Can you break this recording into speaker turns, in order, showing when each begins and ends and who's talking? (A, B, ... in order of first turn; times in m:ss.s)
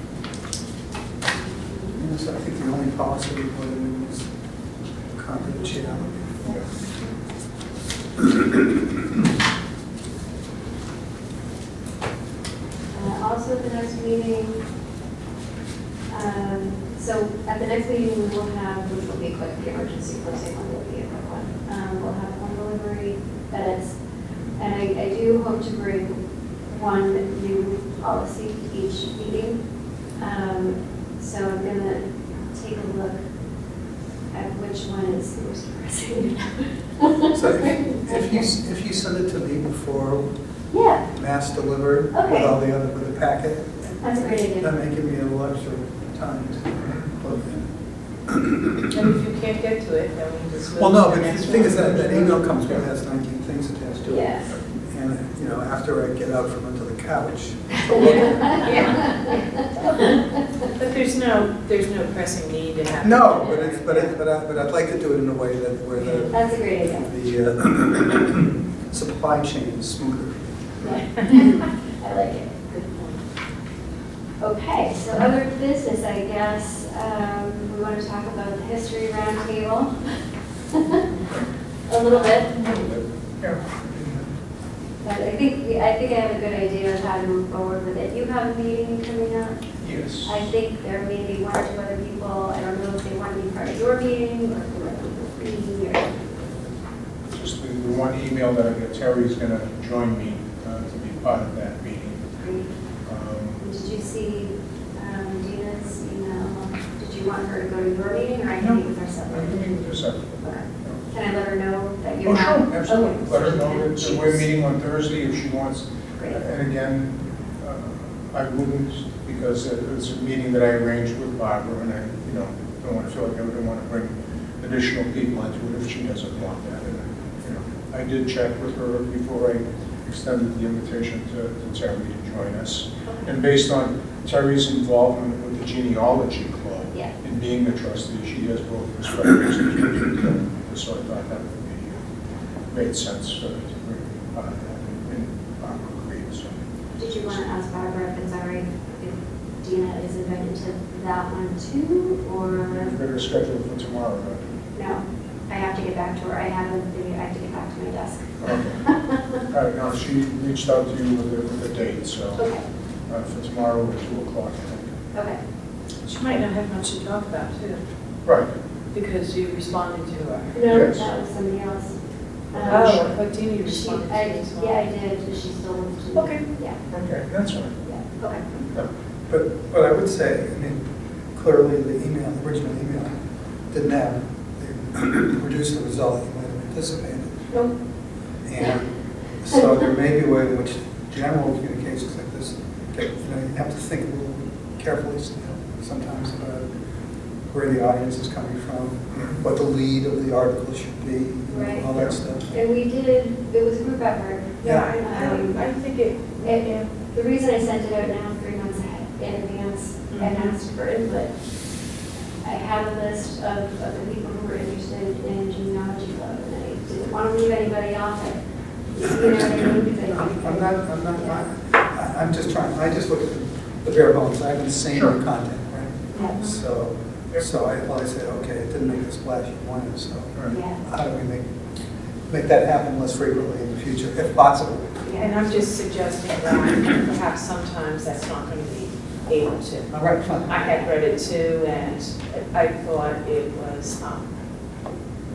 0:02.0-0:04.3 A
0:05.1-0:06.2 A
0:06.2-0:06.6 B
0:12.9-0:14.6 B
0:16.1-0:24.0 B
0:24.6-0:29.6 B
0:30.2-0:33.2 B
0:34.3-0:38.4 B
0:37.3-0:40.2 A
0:40.7-0:41.0 B
0:41.1-0:43.9 A
0:42.1-0:42.5 B
0:44.0-0:44.7 B
0:44.5-0:47.6 A
0:48.9-0:52.5 C
0:50.7-0:59.1 A
0:54.0-0:54.5 B
0:58.0-1:00.0 C
0:58.2-0:59.4 B
1:00.7-1:04.1 C
1:03.0-1:10.5 A
1:06.0-1:06.3 C
1:06.3-1:07.1 B
1:10.8-1:13.2 B
1:14.4-1:20.1 B
1:20.7-1:21.0 B
1:21.9-1:22.8 B
1:22.2-1:23.7 D
1:23.9-1:24.2 A
1:25.0-1:29.6 B
1:29.8-1:30.4 D
1:30.2-1:36.5 B
1:37.3-1:42.3 D
1:42.4-1:42.7 B
1:43.0-1:43.6 D
1:43.6-1:54.4 B
1:48.6-1:51.0 D
1:52.2-2:22.0 D
2:13.0-2:13.3 B
2:22.7-2:26.6 D
2:26.9-2:32.9 B
2:32.5-2:34.4 D
2:34.7-2:39.4 B
2:38.4-2:38.8 D
2:39.5-2:42.5 D
2:42.4-2:42.6 B
2:43.1-2:45.0 D
2:46.0-2:47.8 C
2:48.2-2:48.5 D
2:48.9-2:50.6 C
2:50.5-2:52.0 B
2:50.7-2:51.1 D
2:52.5-2:56.8 B
2:52.6-2:53.1 D
2:52.6-2:54.8 C
2:56.1-2:56.4 C
2:56.9-2:57.8 D
2:57.8-2:58.4 B
2:59.3-3:00.8 A
3:01.3-3:03.1 A
3:03.7-3:07.5 A
3:08.4-3:08.9 A
3:09.4-3:16.7 A
3:17.5-3:22.4 A
3:19.1-3:19.4 D
3:21.5-3:21.9 B
3:22.5-3:25.6 B
3:24.6-3:24.9 A
3:24.6-3:26.9 C
3:26.4-3:31.3 B
3:30.1-3:30.5 C
3:32.4-3:38.4 B
3:38.9-3:41.4 B
3:39.2-3:51.4 A
3:46.1-3:46.4 B
3:46.1-3:46.6 C
3:50.5-3:50.8 B
3:52.3-3:54.9 A
3:55.0-3:55.3 B
3:55.2-4:04.3 C
3:59.9-4:00.8 A